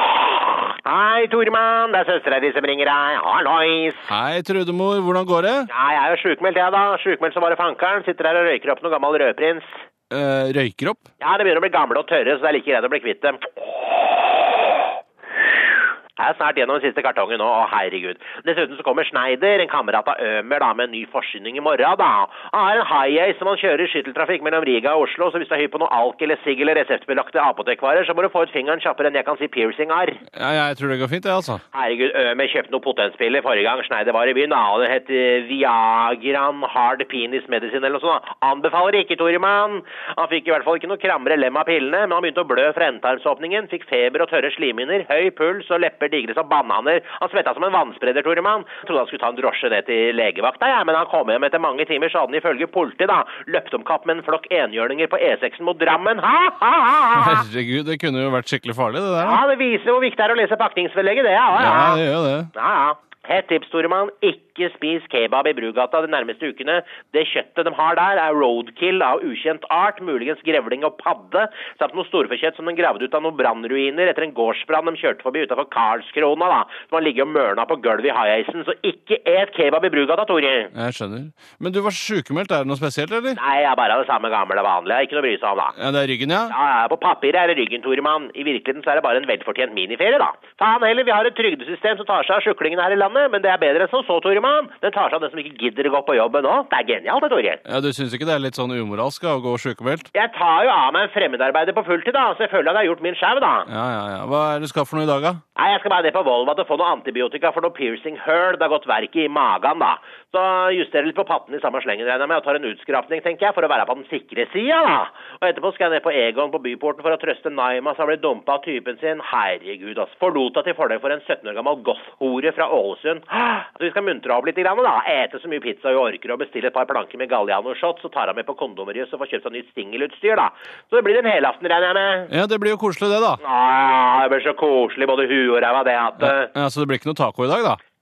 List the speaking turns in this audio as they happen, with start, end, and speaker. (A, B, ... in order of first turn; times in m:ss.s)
0:00.8-0:04.1 A
0:04.1-0:05.7 B
0:05.7-0:09.8 A
0:10.1-0:11.0 B
0:11.2-0:13.5 A
0:16.2-0:30.2 A
0:30.3-0:31.6 B
0:31.7-0:57.4 A
0:57.2-0:59.4 B
0:59.2-1:02.0 A
1:01.5-1:02.5 B
1:02.5-1:20.7 A
1:20.7-1:23.4 B
1:23.4-1:25.7 A
1:25.8-1:26.5 B
1:26.5-1:37.6 A
1:37.6-1:40.1 B
1:40.1-1:43.7 A
1:43.7-1:45.4 B
1:45.6-2:12.3 A
2:12.3-2:13.4 B
2:13.4-2:16.5 A
2:16.2-2:17.8 B